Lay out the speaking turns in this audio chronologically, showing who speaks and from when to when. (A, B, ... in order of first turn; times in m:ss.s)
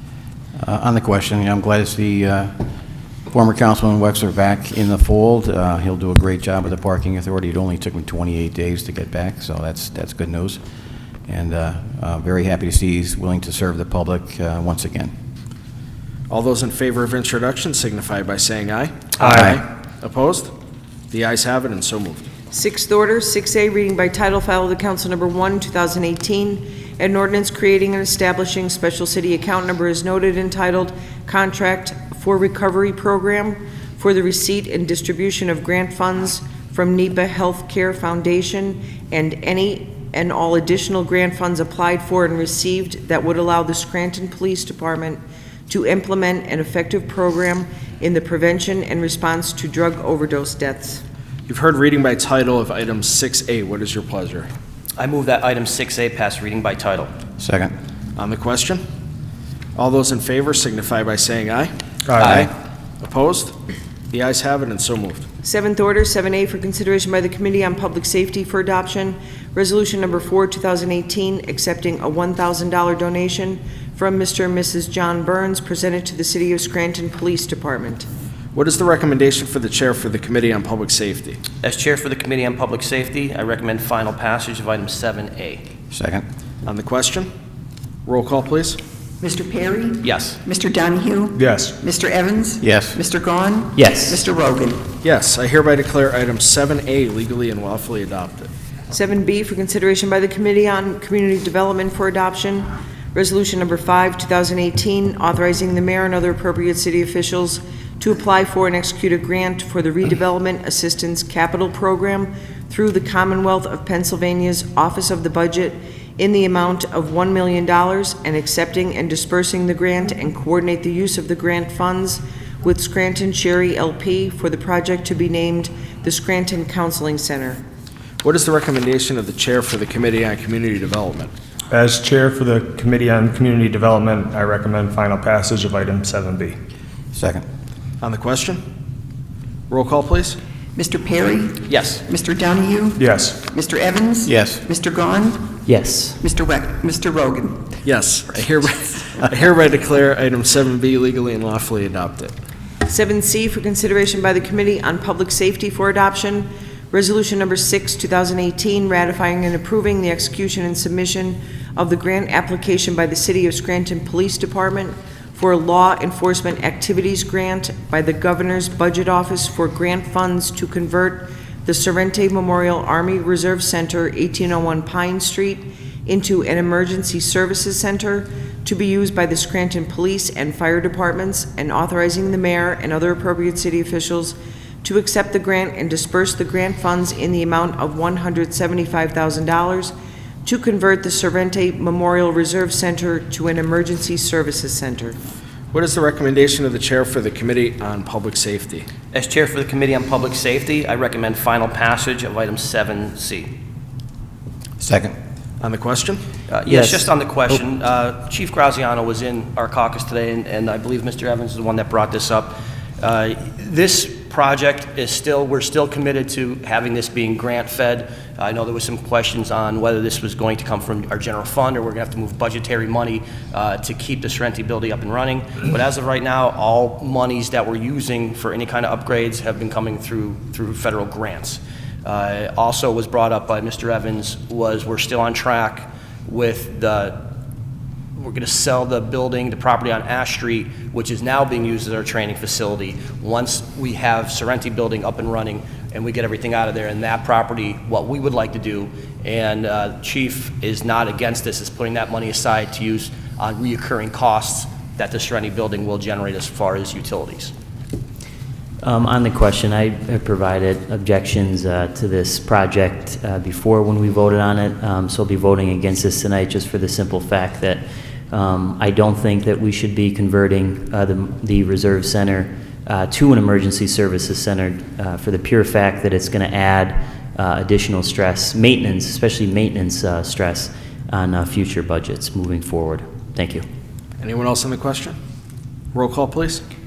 0:00.6-0:02.6 A
0:03.3-0:10.6 A
0:11.3-0:15.1 A
0:16.3-0:20.5 B
0:19.2-0:19.5 C
0:21.1-0:22.3 B
0:22.5-0:51.0 D
0:51.5-0:54.5 B
0:55.0-0:57.1 E
0:57.4-0:57.7 A
0:58.2-0:58.8 B
0:59.8-1:03.5 B
1:02.0-1:02.4 C
1:02.2-1:02.5 E
1:04.1-1:05.3 B
1:05.4-1:18.1 D
1:18.5-1:21.4 B
1:21.6-1:25.6 E
1:25.9-1:26.2 A
1:26.6-1:27.3 B
1:28.0-1:28.8 B
1:29.2-1:34.9 F
1:30.0-1:30.4 E
1:31.3-1:31.8 C
1:32.6-1:33.0 A
1:33.7-1:34.2 G
1:35.0-1:38.5 B
1:38.9-2:07.6 D
2:08.2-2:11.3 B
2:11.7-2:16.6 C
2:17.1-2:17.4 A
2:18.0-2:18.6 B
2:19.7-2:20.4 B
2:20.8-2:25.6 F
2:21.7-2:22.0 E
2:23.0-2:23.4 C
2:24.2-2:24.6 A
2:25.6-2:26.2 G
2:26.2-2:27.8 F
2:27.8-2:32.3 B
2:32.9-3:09.9 D
3:10.4-3:15.2 D
3:15.7-3:18.9 B
3:19.1-3:23.5 E
3:24.8-3:25.2 A
3:25.6-3:26.2 B
3:26.5-3:57.2 E
3:26.7-3:27.6 G
3:58.2-4:17.5 E
4:18.8-4:43.6 G
4:44.2-4:45.2 B
4:45.9-4:46.6 B